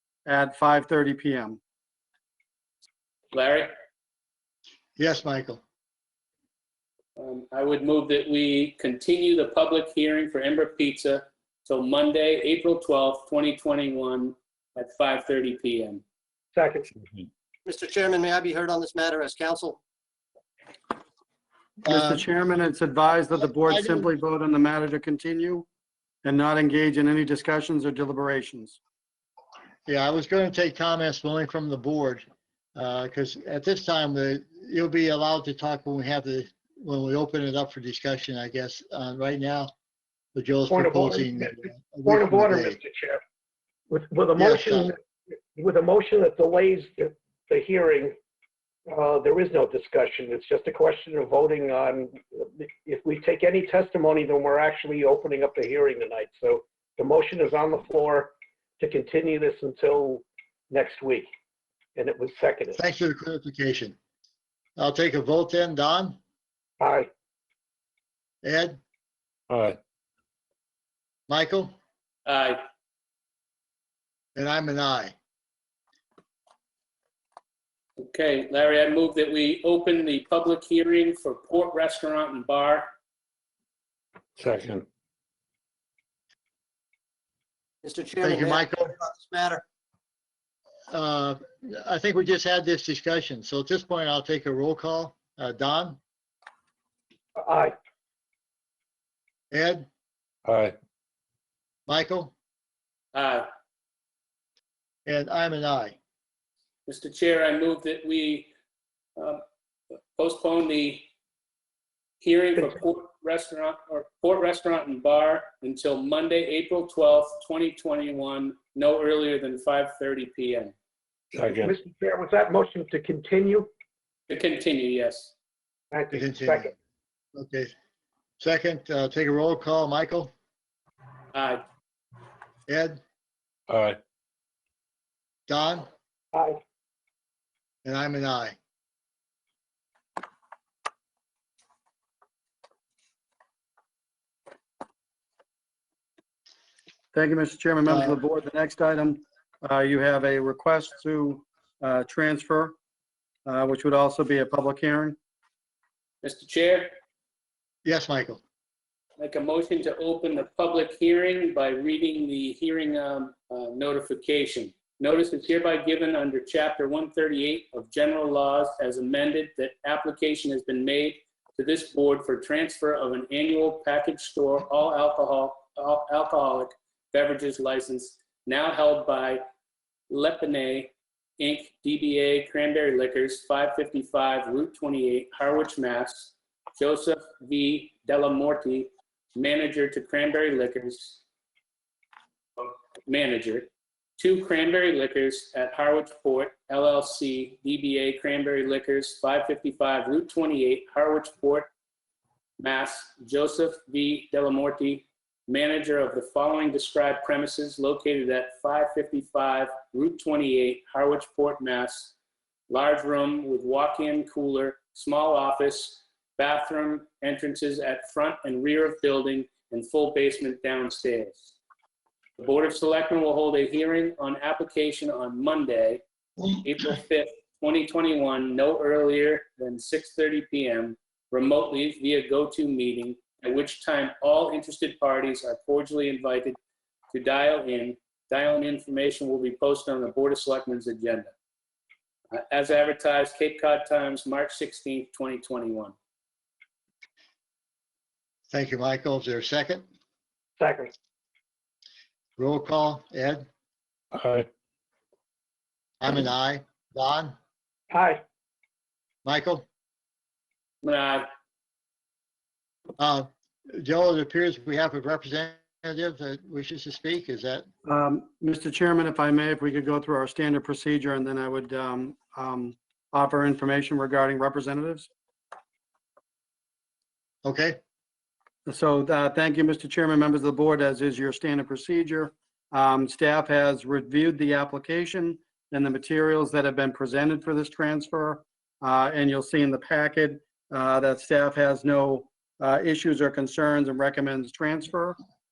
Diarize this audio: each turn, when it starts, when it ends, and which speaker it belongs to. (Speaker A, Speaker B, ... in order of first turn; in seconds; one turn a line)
Speaker A: 0.3-1.6
Speaker B: 3.3-3.7
Speaker C: 5.0-5.6
Speaker B: 7.2-16.0
Speaker D: 16.6-16.9
Speaker E: 17.7-19.7
Speaker C: 21.8-22.3
Speaker A: 21.9-25.7
Speaker C: 23.5-24.1
Speaker A: 26.2-28.8
Speaker C: 29.9-32.2
Speaker C: 32.8-39.7
Speaker C: 40.4-42.8
Speaker D: 40.7-43.2
Speaker D: 43.9-45.0
Speaker C: 44.4-44.9
Speaker D: 45.5-48.2
Speaker D: 48.9-61.3
Speaker D: 62.0-62.8
Speaker C: 62.8-64.0
Speaker C: 64.8-66.2
Speaker D: 66.8-67.1
Speaker C: 68.4-68.8
Speaker F: 69.5-69.8
Speaker C: 71.3-71.8
Speaker B: 72.3-72.6
Speaker C: 74.3-75.1
Speaker B: 78.0-82.9
Speaker F: 84.4-84.9
Speaker E: 87.9-89.5
Speaker C: 88.2-88.9
Speaker C: 90.9-96.0
Speaker D: 97.4-97.8
Speaker C: 99.5-99.9
Speaker F: 100.5-100.8
Speaker C: 101.9-102.3
Speaker B: 103.1-103.5
Speaker C: 105.1-106.0
Speaker B: 106.9-108.5
Speaker B: 109.2-109.4
Speaker B: 110.2-111.1
Speaker B: 112.2-120.7
Speaker F: 121.3-121.8
Speaker D: 121.4-123.7
Speaker B: 124.3-125.3
Speaker D: 125.9-126.7
Speaker C: 126.1-126.7
Speaker C: 127.3-127.7
Speaker C: 128.4-130.3
Speaker B: 131.3-131.6
Speaker C: 132.7-133.0
Speaker F: 133.7-134.0
Speaker C: 135.5-135.9
Speaker D: 136.3-136.6
Speaker C: 137.8-138.6
Speaker A: 147.1-152.8
Speaker C: 147.9-148.2
Speaker A: 153.4-155.2
Speaker B: 156.2-156.9
Speaker C: 157.8-158.4
Speaker B: 159.2-179.4
Speaker B: 180.1-191.2
Speaker B: 192.6-201.7
Speaker B: 202.6-212.2
Speaker B: 212.7-221.6
Speaker B: 222.4-236.6
Speaker B: 237.1-241.3
Speaker B: 242.3-245.9
Speaker C: 248.5-249.8
Speaker D: 250.6-250.9
Speaker C: 252.4-253.4
Speaker F: 254.1-254.5
Speaker C: 256.0-257.4
Speaker D: 257.9-258.2
Speaker C: 259.2-259.6
Speaker B: 260.8-261.3
Speaker C: 263.0-267.7
Speaker A: 267.9-275.1
Speaker C: 277.4-277.8
Speaker A: 278.7-295.2